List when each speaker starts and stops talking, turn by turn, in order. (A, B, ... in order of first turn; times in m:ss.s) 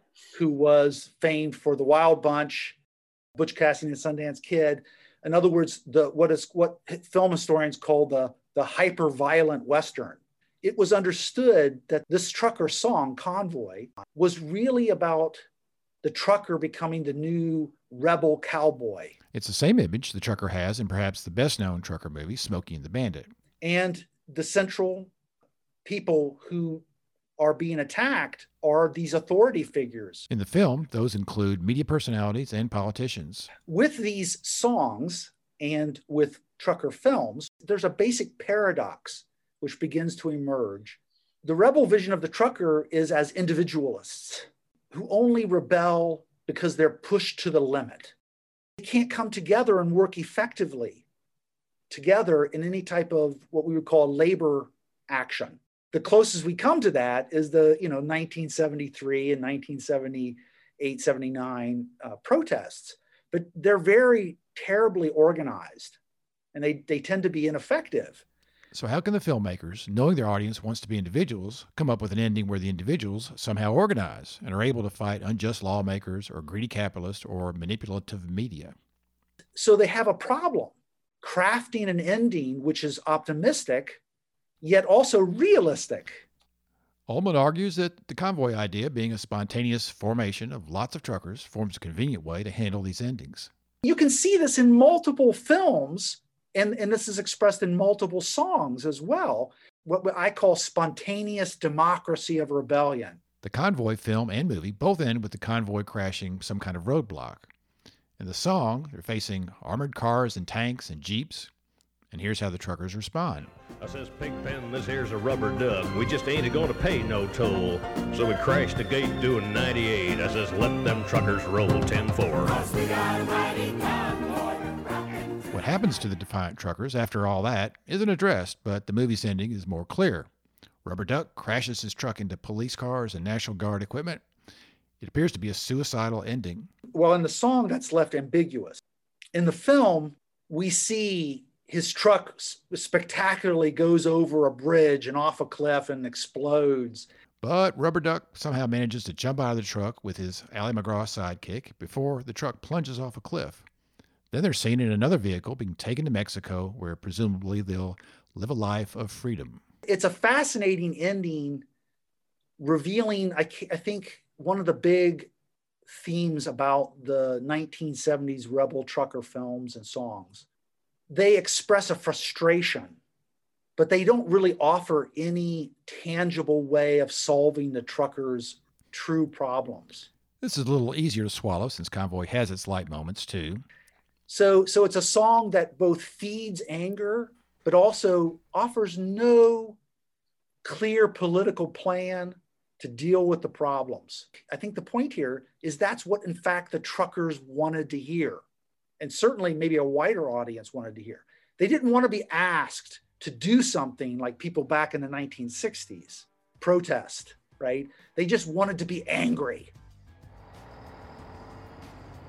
0:00.3-0:02.8 A
0:03.4-0:15.4 A
0:16.0-0:19.1 A
0:19.3-0:23.3 B
0:23.6-0:25.1 A
0:25.8-0:26.8 A
0:27.4-0:30.3 A
0:30.3-0:33.5 B
0:33.7-0:48.2 A
0:48.8-0:51.0 A
0:51.9-1:06.0 A
1:06.5-1:08.2 A
1:08.7-1:18.8 B
1:19.6-1:24.0 A
1:24.6-1:26.2 A
1:27.1-1:33.5 B
1:33.8-1:43.2 A
1:43.4-1:47.5 B
1:48.2-1:51.5 B
1:52.1-1:53.5 B
1:53.7-2:03.5 C
2:05.5-2:10.3 B
2:10.8-2:14.2 B
2:15.0-2:16.7 B
2:16.9-2:18.8 A
2:19.4-2:27.1 A
2:27.4-2:33.6 B
2:34.3-2:39.6 B
2:39.9-2:41.7 A
2:42.6-2:45.3 A
2:45.9-2:50.5 A
2:51.1-2:53.0 A
2:53.8-3:00.1 A
3:00.4-3:03.6 B
3:04.3-3:09.8 A
3:10.6-3:18.4 A
3:19.0-3:29.7 A